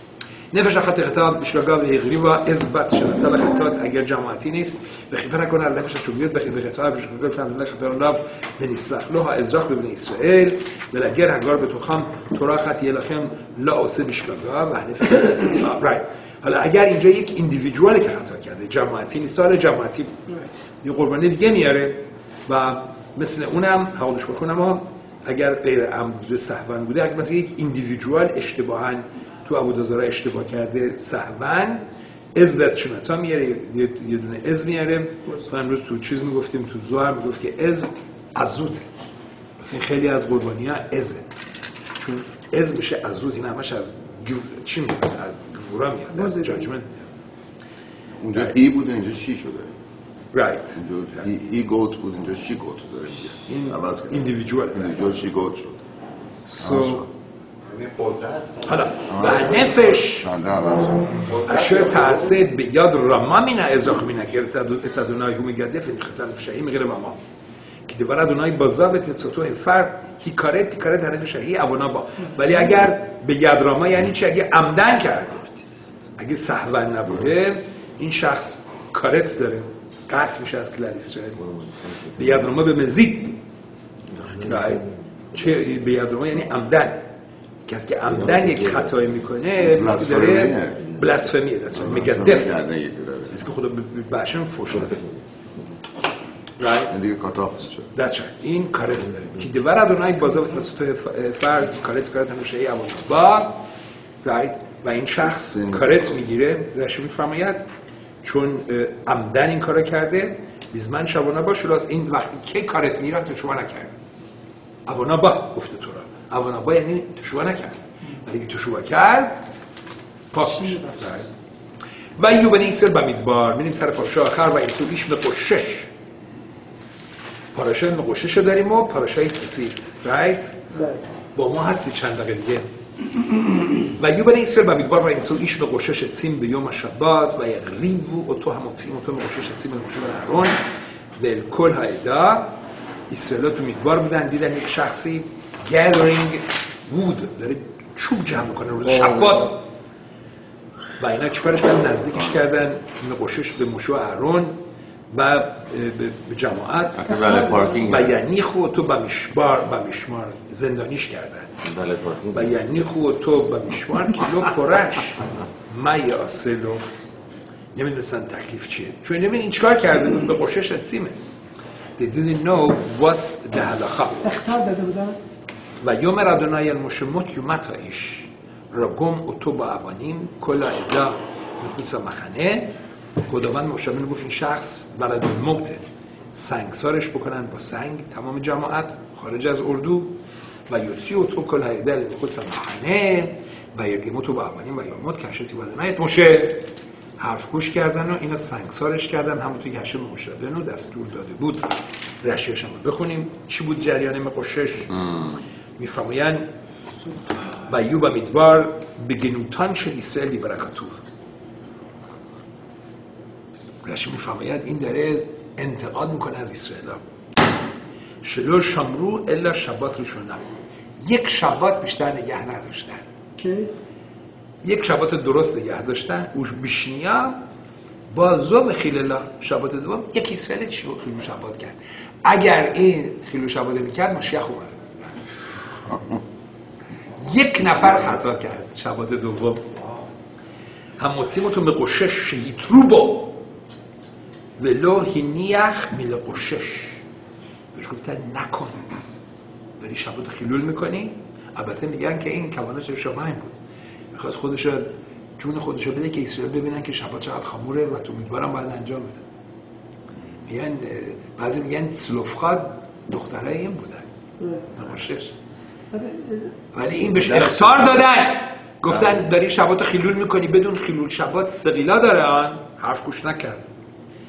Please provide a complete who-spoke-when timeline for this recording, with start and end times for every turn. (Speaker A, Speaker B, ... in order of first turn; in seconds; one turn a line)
Speaker A: 0.5-20.2
Speaker A: 20.8-22.0
Speaker A: 22.5-31.8
Speaker A: 32.4-38.9
Speaker A: 39.6-41.3
Speaker A: 42.0-47.1
Speaker B: 46.1-46.7
Speaker C: 48.2-49.7
Speaker A: 50.3-51.3
Speaker C: 50.8-55.9
Speaker A: 53.5-55.0
Speaker A: 56.5-57.1
Speaker C: 56.6-57.1
Speaker D: 57.7-59.6
Speaker A: 58.6-60.3
Speaker C: 59.1-61.3
Speaker D: 61.3-62.4
Speaker A: 61.5-67.2
Speaker A: 67.9-75.6
Speaker A: 76.2-81.4
Speaker E: 81.4-82.6
Speaker A: 82.2-83.4
Speaker E: 84.1-84.8
Speaker A: 84.4-87.0
Speaker A: 87.7-92.6
Speaker E: 88.1-88.9
Speaker C: 89.6-91.0
Speaker C: 91.7-93.5
Speaker A: 93.3-95.0
Speaker A: 96.6-96.9
Speaker C: 96.9-97.9
Speaker A: 97.9-103.6
Speaker A: 104.2-107.7
Speaker C: 105.4-106.0
Speaker A: 108.2-114.0
Speaker A: 114.9-119.4
Speaker A: 120.3-121.3
Speaker B: 120.4-121.0
Speaker A: 122.2-125.9
Speaker A: 127.5-130.8
Speaker B: 130.7-131.0
Speaker A: 131.3-132.7
Speaker A: 133.8-140.6
Speaker A: 141.2-142.6
Speaker A: 143.1-149.6
Speaker E: 148.9-149.4
Speaker A: 151.0-154.6
Speaker A: 155.1-157.0
Speaker E: 157.0-158.2
Speaker B: 157.1-157.9
Speaker A: 157.9-161.6
Speaker E: 161.6-162.6
Speaker A: 162.3-166.8
Speaker A: 167.8-171.2
Speaker A: 172.0-174.2
Speaker B: 174.2-175.2
Speaker A: 175.8-185.8
Speaker A: 186.3-190.2
Speaker A: 190.7-205.1
Speaker A: 205.8-206.5
Speaker A: 207.5-211.0
Speaker A: 213.8-217.0
Speaker A: 218.2-220.5
Speaker A: 221.0-223.1
Speaker B: 223.4-223.7
Speaker A: 224.6-227.4
Speaker A: 228.1-235.9
Speaker A: 237.2-239.8
Speaker A: 241.0-243.4
Speaker A: 244.6-247.0
Speaker A: 247.8-248.9
Speaker A: 249.8-253.5
Speaker A: 254.1-259.2
Speaker A: 260.5-264.1
Speaker B: 264.4-264.7
Speaker A: 264.7-265.4
Speaker B: 265.9-266.5
Speaker A: 266.7-273.6
Speaker C: 267.2-267.7